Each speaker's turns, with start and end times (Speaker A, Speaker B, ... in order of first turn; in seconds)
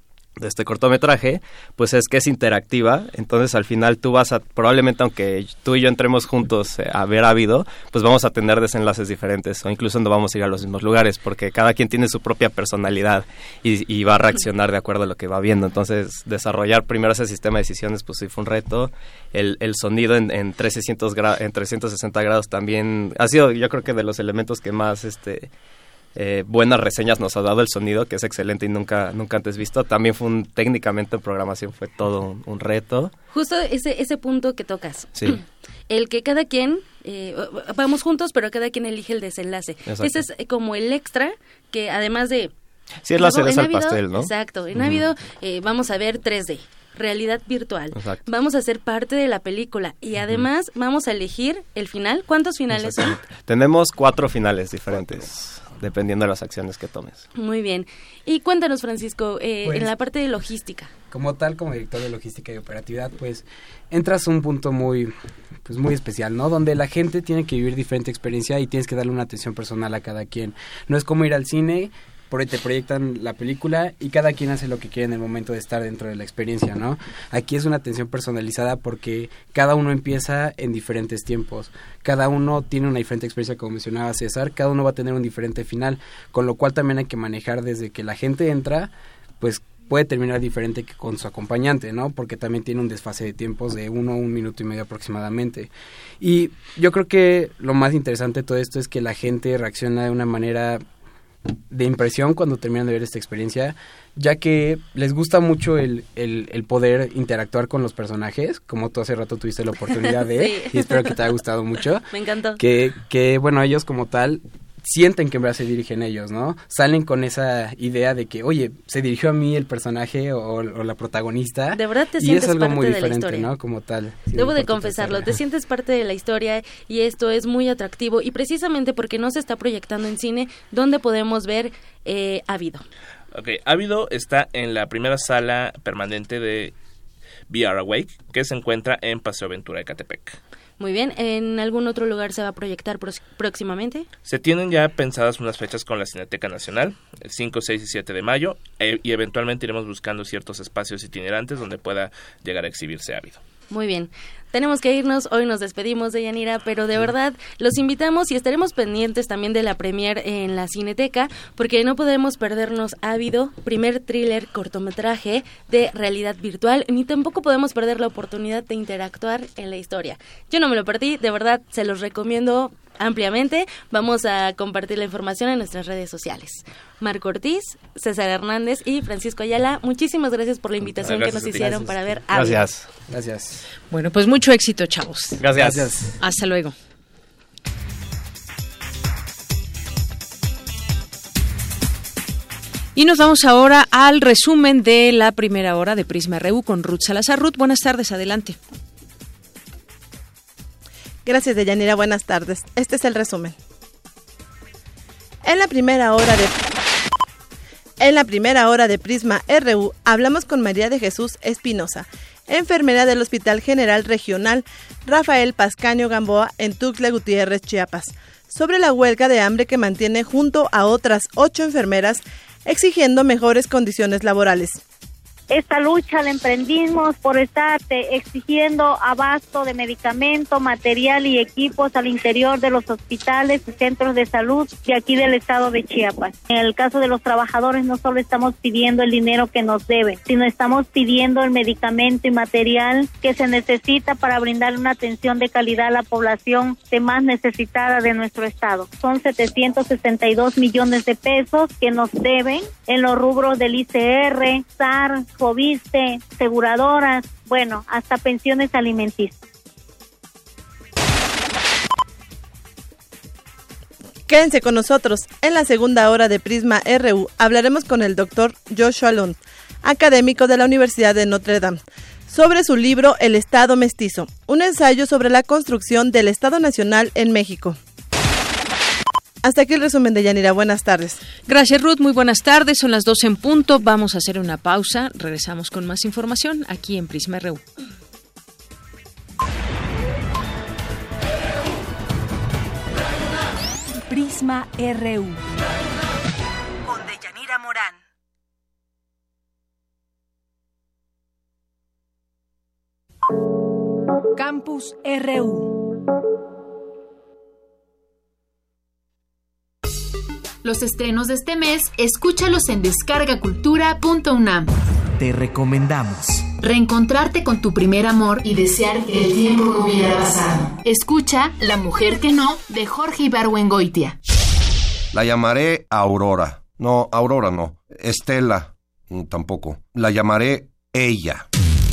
Speaker A: 0.4-25.5, 26.1-33.1, 39.9-40.2, 43.0-45.1, 47.9-48.2, 52.7-57.2, 181.0-181.6, 182.3-182.9, 185.4-185.9
Speaker B: 33.3-42.5, 43.2-53.2, 57.3-60.9, 109.9-111.2, 112.1-112.6, 121.7-123.5, 124.3-132.8, 140.8-144.1, 153.7-182.6
Speaker C: 61.1-65.1, 65.6-100.8, 101.7-112.1, 112.6-125.4, 181.0-182.2, 183.1-183.6, 185.6-186.1
Speaker D: 133.3-136.7, 137.5-140.4, 144.2-153.4
Speaker E: 183.9-185.4, 186.2-186.7, 192.9-198.6, 281.5-287.6
Speaker F: 201.2-203.6, 205.4-206.6, 208.0-224.8, 264.3-277.8, 279.4-281.2
Speaker G: 225.5-259.4
Speaker H: 294.1-295.4, 304.4-305.9
Speaker I: 296.8-298.0, 310.6-324.2
Speaker J: 325.1-331.4